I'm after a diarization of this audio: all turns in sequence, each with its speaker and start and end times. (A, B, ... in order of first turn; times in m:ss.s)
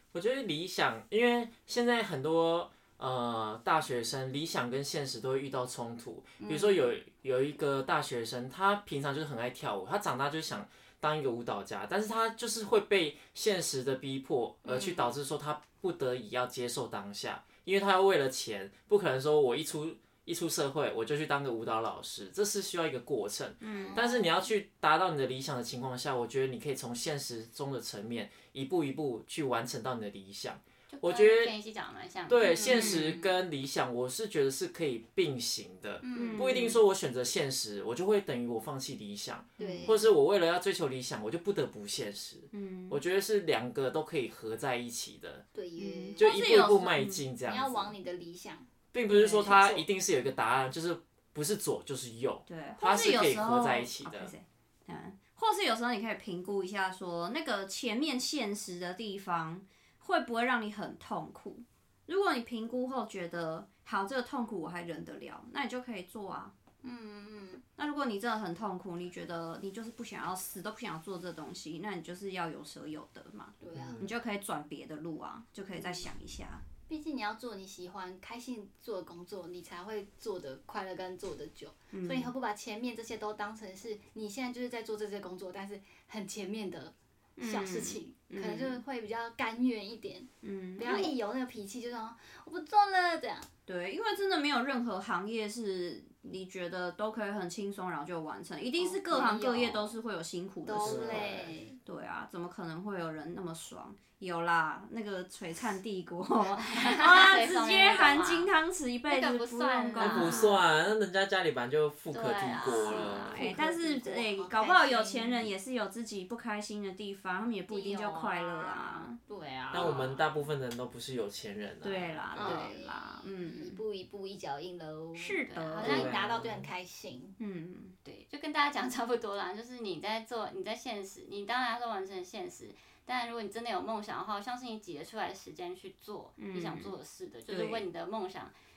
0:00.1-0:31.5 A
0:06.4-0:06.9 B
0:14.6-0:15.1 B
0:23.6-0:24.0 C
0:23.6-0:24.3 B
0:30.9-0:32.5 D
0:32.3-0:45.4 A
0:32.4-0:33.3 B
0:32.7-0:33.2 C
0:36.0-0:36.7 B
0:36.2-0:36.8 C
0:39.6-0:40.0 B
0:39.6-0:40.0 C
0:42.5-0:43.0 C
0:45.5-0:46.8 B
0:45.8-0:47.2 C
0:46.2-0:47.9 A
0:47.4-0:48.7 B
0:48.9-0:54.3 A
0:49.1-0:49.8 C
0:49.3-0:49.8 B
0:52.5-1:06.5 C
1:06.8-1:07.6 B
1:07.8-1:16.6 C
1:13.6-1:14.1 B
1:13.8-1:14.1 A
1:15.7-1:16.1 B
1:16.9-1:33.5 B
1:21.9-1:22.3 C
1:27.4-1:28.8 C
1:30.4-1:31.2 C
1:33.7-1:41.3 C
1:38.8-1:40.0 B
1:40.7-1:41.8 B
1:40.8-1:41.6 A
1:41.8-1:50.6 C
1:46.6-1:48.5 D
1:49.1-1:50.6 D
1:50.0-1:53.3 A
1:52.1-1:53.4 D
1:52.9-1:55.5 B
1:53.1-1:59.2 C
1:57.7-2:00.2 B
1:59.7-2:02.7 A
2:01.8-2:03.8 C
2:02.4-2:07.4 B
2:05.2-2:06.0 C
2:05.5-2:06.2 D
2:05.8-2:06.7 A
2:07.4-2:08.0 C
2:08.0-2:18.5 D
2:16.4-2:17.0 C
2:17.5-2:17.9 C